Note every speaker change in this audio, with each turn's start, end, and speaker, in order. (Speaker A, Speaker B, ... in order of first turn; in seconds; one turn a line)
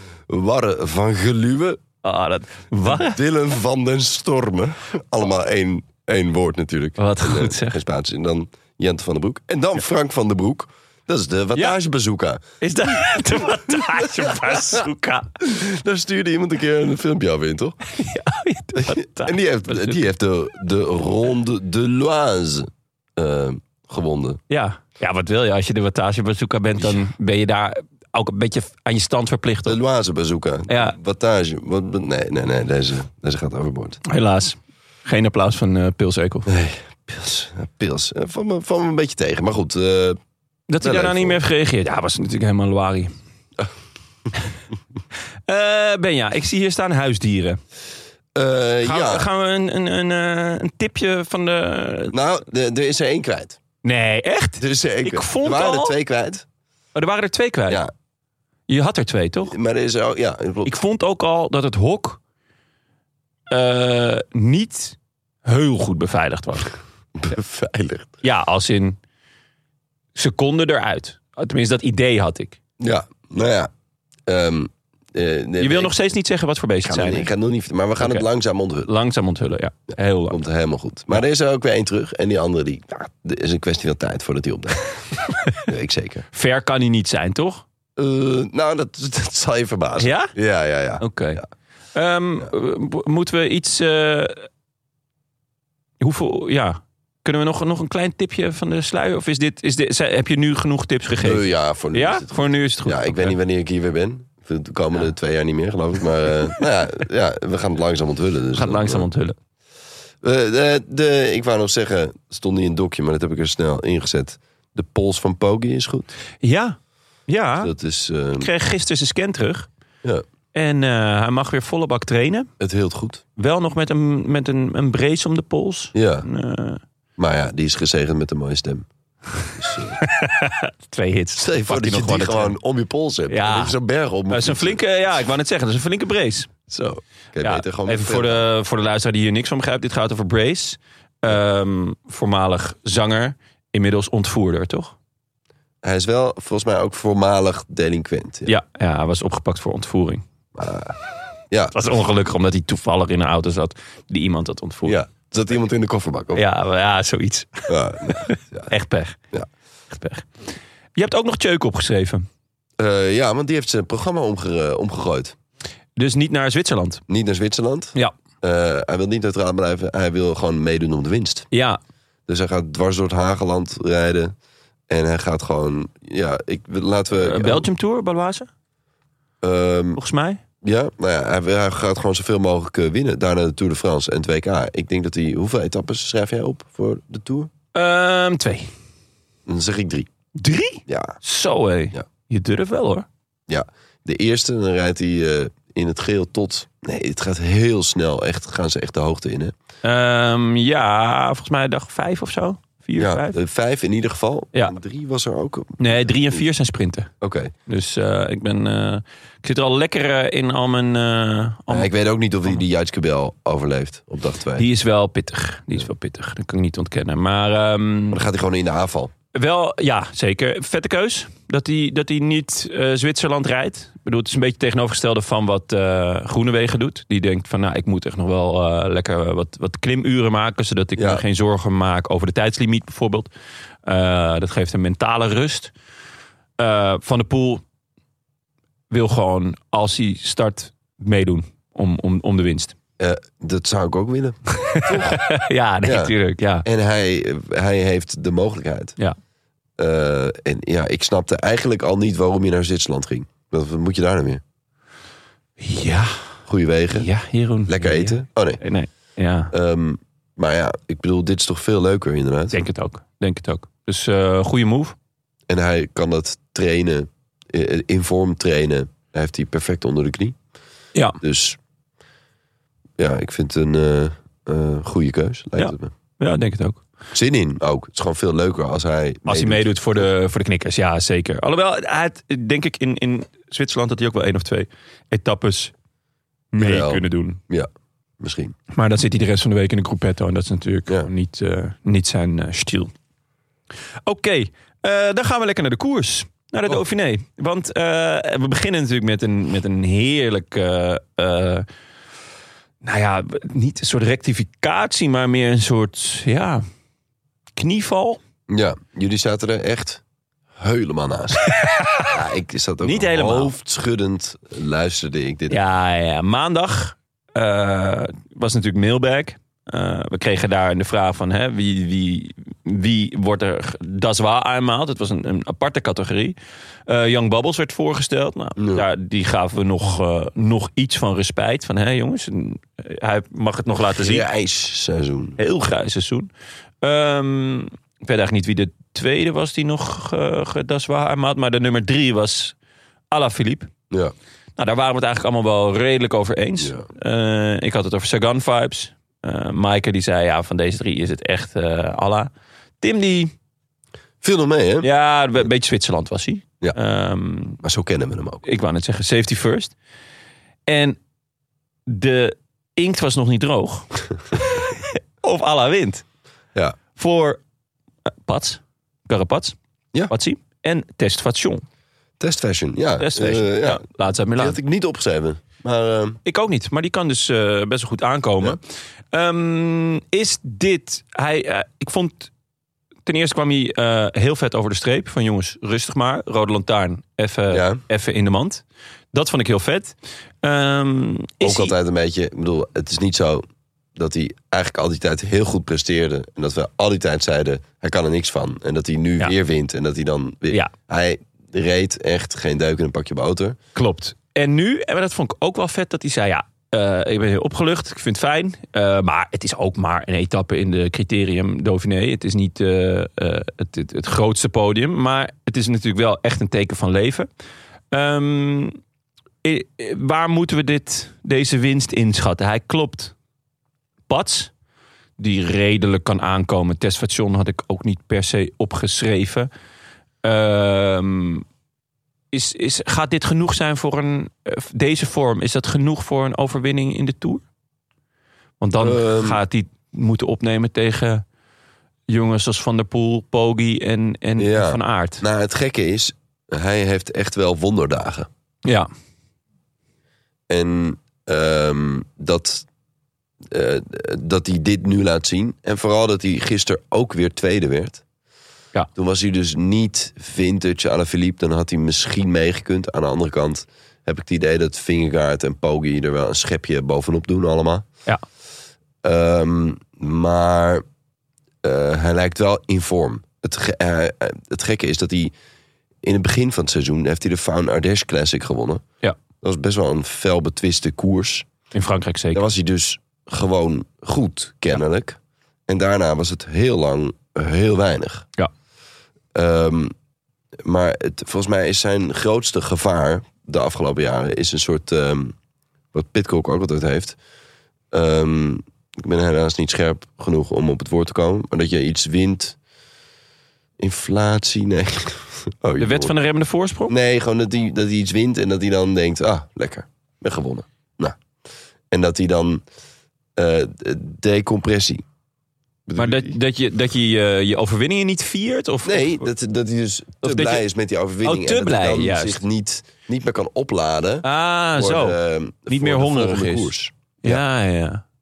Speaker A: 0.3-1.8
Speaker B: 2.0-3.2
Speaker A: 2.8-12.4
Speaker B: 7.0-7.8
Speaker B: 12.6-15.3
Speaker A: 13.7-14.8
Speaker A: 15.4-17.8
Speaker B: 17.9-20.0
Speaker A: 18.8-24.4
Speaker B: 24.5-29.8
Speaker A: 29.6-34.0
Speaker B: 30.7-31.0
Speaker B: 34.0-36.5
Speaker A: 36.5-40.2
Speaker B: 40.7-43.1
Speaker A: 40.8-41.4
Speaker B: 45.5-47.6
Speaker A: 48.3-49.3
Speaker B: 48.8-52.1
Speaker A: 52.1-53.6
Speaker B: 53.8-56.0
Speaker A: 54.6-56.4
Speaker B: 56.9-57.8
Speaker B: 58.7-59.5
Speaker A: 59.5-60.8
Speaker B: 60.6-62.2
Speaker B: 63.5-66.7
Speaker A: 67.2-68.1
Speaker B: 68.2-69.0
Speaker B: 70.1-72.6
Speaker A: 72.8-73.7
Speaker A: 74.3-75.9
Speaker B: 75.6-77.3
Speaker A: 76.8-78.9
Speaker B: 78.0-78.3
Speaker B: 78.8-80.4
Speaker A: 80.3-84.9
Speaker A: 85.6-86.2
Speaker B: 86.3-87.6
Speaker A: 88.0-91.5
Speaker B: 90.0-90.3
Speaker B: 91.0-91.4
Speaker B: 91.9-94.5
Speaker B: 96.0-103.4
Speaker A: 101.2-109.0
Speaker B: 108.5-109.3
Speaker A: 110.2-116.1
Speaker B: 116.4-117.7
Speaker A: 117.6-118.5
Speaker B: 118.4-119.7
Speaker B: 120.5-122.5
Speaker A: 122.6-123.2
Speaker B: 123.4-126.8
Speaker A: 125.9-126.2
Speaker A: 127.2-128.9
Speaker A: 129.5-130.0
Speaker B: 130.0-132.6
Speaker A: 131.4-134.8
Speaker B: 133.3-133.8
Speaker B: 134.3-136.5
Speaker A: 136.7-138.4
Speaker B: 137.4-144.9
Speaker A: 145.8-148.5
Speaker B: 148.4-150.2
Speaker A: 150.5-150.9
Speaker B: 151.7-155.0
Speaker A: 154.8-156.4
Speaker B: 156.3-159.2
Speaker A: 157.7-158.7
Speaker B: 159.9-160.3
Speaker B: 160.9-162.3
Speaker A: 162.8-165.3
Speaker B: 165.9-167.0
Speaker A: 167.1-171.5
Speaker B: 171.5-171.8
Speaker A: 172.3-174.3
Speaker A: 174.9-177.7
Speaker B: 177.1-178.5
Speaker A: 179.4-180.0
Speaker B: 179.9-180.4
Speaker A: 180.6-187.5
Speaker B: 187.7-188.7
Speaker A: 189.4-190.1
Speaker B: 190.3-193.1
Speaker A: 190.9-191.2
Speaker A: 193.5-199.5
Speaker B: 199.8-203.4
Speaker A: 202.9-206.4
Speaker B: 205.8-207.1
Speaker A: 207.2-207.5
Speaker B: 207.7-211.9
Speaker A: 211.7-214.7
Speaker B: 214.6-218.2
Speaker A: 218.1-219.1
Speaker B: 219.3-233.3
Speaker A: 231.0-231.2
Speaker B: 233.8-235.7
Speaker B: 236.6-237.6
Speaker B: 238.9-242.8
Speaker A: 243.0-245.2
Speaker B: 244.6-246.7
Speaker A: 245.8-246.1
Speaker A: 246.6-249.0
Speaker A: 249.8-254.4
Speaker B: 255.6-256.2
Speaker A: 256.5-257.1
Speaker B: 256.9-259.5
Speaker A: 257.7-258.6
Speaker A: 259.5-262.6
Speaker B: 262.5-264.9
Speaker A: 265.5-270.4
Speaker A: 271.2-271.6
Speaker A: 273.0-275.9
Speaker B: 275.6-276.8
Speaker A: 277.1-280.0
Speaker B: 279.2-285.7
Speaker B: 286.5-287.4
Speaker A: 286.6-287.7
Speaker A: 288.2-288.5
Speaker B: 288.7-292.9
Speaker B: 294.0-301.6
Speaker B: 302.8-306.6
Speaker B: 307.6-308.2
Speaker A: 308.5-310.0
Speaker A: 310.6-311.5
Speaker B: 311.5-312.1
Speaker A: 312.1-315.6
Speaker B: 312.8-313.5
Speaker B: 315.5-326.3
Speaker B: 326.9-334.2
Speaker A: 328.6-328.8
Speaker A: 334.0-335.4
Speaker B: 335.4-336.3
Speaker B: 336.8-342.5
Speaker B: 343.1-343.7
Speaker B: 344.6-353.3
Speaker A: 354.2-354.9
Speaker B: 354.8-357.6
Speaker A: 357.6-358.4
Speaker B: 358.4-359.7
Speaker B: 360.7-361.0
Speaker B: 361.9-366.0
Speaker B: 366.9-367.4
Speaker B: 368.2-369.6
Speaker B: 370.1-371.6
Speaker A: 372.2-373.8
Speaker B: 373.0-374.6
Speaker A: 374.4-376.2
Speaker B: 376.2-378.6
Speaker B: 379.1-382.3
Speaker B: 383.1-391.8
Speaker A: 387.5-387.8
Speaker A: 391.4-393.4
Speaker A: 393.9-403.6
Speaker B: 403.7-417.3
Speaker B: 417.9-418.8
Speaker B: 419.4-423.1
Speaker B: 424.1-424.5
Speaker B: 425.2-429.5
Speaker B: 430.2-431.4
Speaker B: 432.3-437.4
Speaker B: 438.6-441.2
Speaker A: 438.8-439.4
Speaker B: 442.1-445.2
Speaker A: 444.4-448.3
Speaker A: 450.5-452.6
Speaker A: 453.5-458.0
Speaker A: 458.9-467.9
Speaker A: 469.0-470.8
Speaker A: 471.6-475.3
Speaker A: 476.0-478.8
Speaker A: 479.4-481.5
Speaker B: 481.7-482.4
Speaker A: 482.3-488.3
Speaker A: 489.3-489.9
Speaker A: 490.6-495.3
Speaker A: 495.9-497.2
Speaker A: 497.9-502.6
Speaker A: 503.8-506.1
Speaker B: 505.8-506.9
Speaker A: 506.9-511.2
Speaker A: 511.9-512.6
Speaker A: 513.4-515.0
Speaker A: 515.9-516.4
Speaker B: 516.0-519.3
Speaker A: 518.8-527.4
Speaker B: 520.2-520.6
Speaker B: 521.2-522.4
Speaker B: 524.2-528.0